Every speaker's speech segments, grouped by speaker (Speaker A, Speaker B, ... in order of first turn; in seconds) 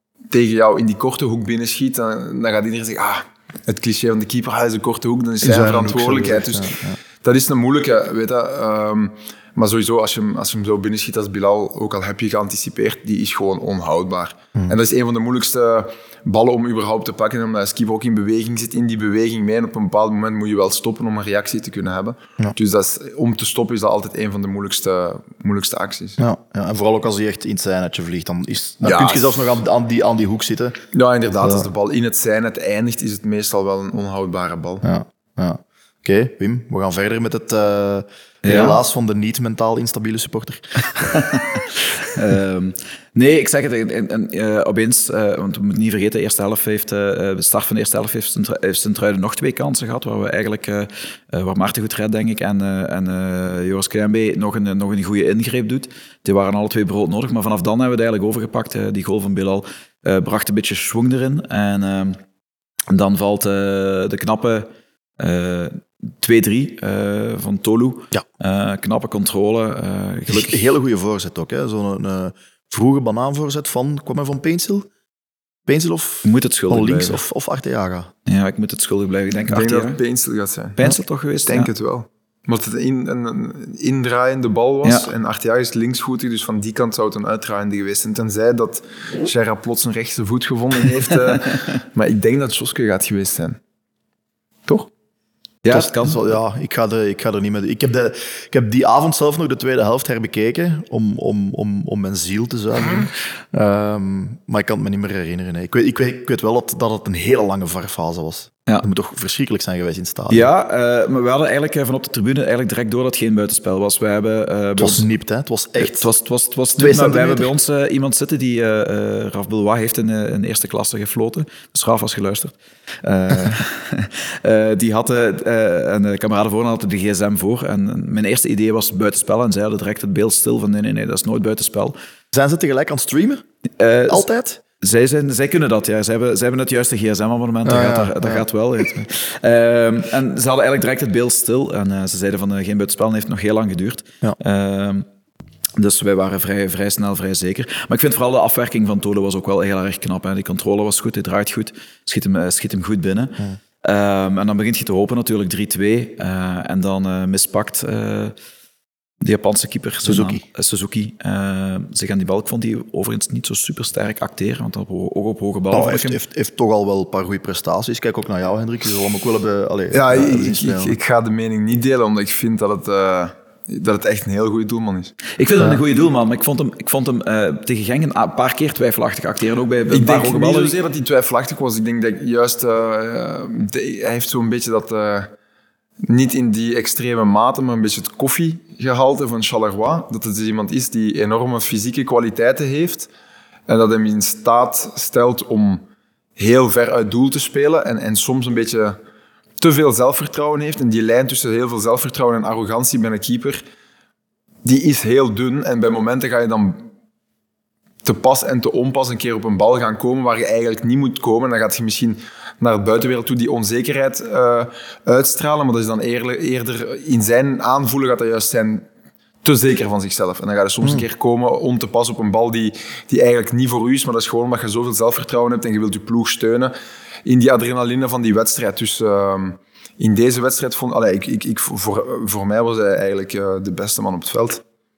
Speaker A: 0.3-26.2, 28.8-29.4, 30.9-34.8, 79.5-80.9, 81.4-93.6, 169.9-175.2, 179.9-185.3, 186.0-193.1, 193.7-195.8, 196.4-199.0, 199.6-203.6, 204.6-206.9, 208.0-218.8, 219.4-226.7, 227.2-234.6
Speaker B: 5.4-7.0, 26.2-30.8, 34.8-41.3, 70.3-74.9, 75.7-78.1, 95.7-110.5, 114.8-116.1, 116.8-117.5, 132.3-133.4, 134.1-134.6, 137.6-139.0, 160.0-160.4, 165.7-170.9
Speaker C: 38.4-38.8, 41.1-62.2, 62.9-70.7, 76.2-77.2, 78.3-80.0, 80.8-81.7, 84.8-85.1, 95.6-96.2, 110.3-115.1, 115.8-131.9, 133.8-134.2, 134.8-145.1, 145.8-158.3, 159.2-166.2, 175.4-180.8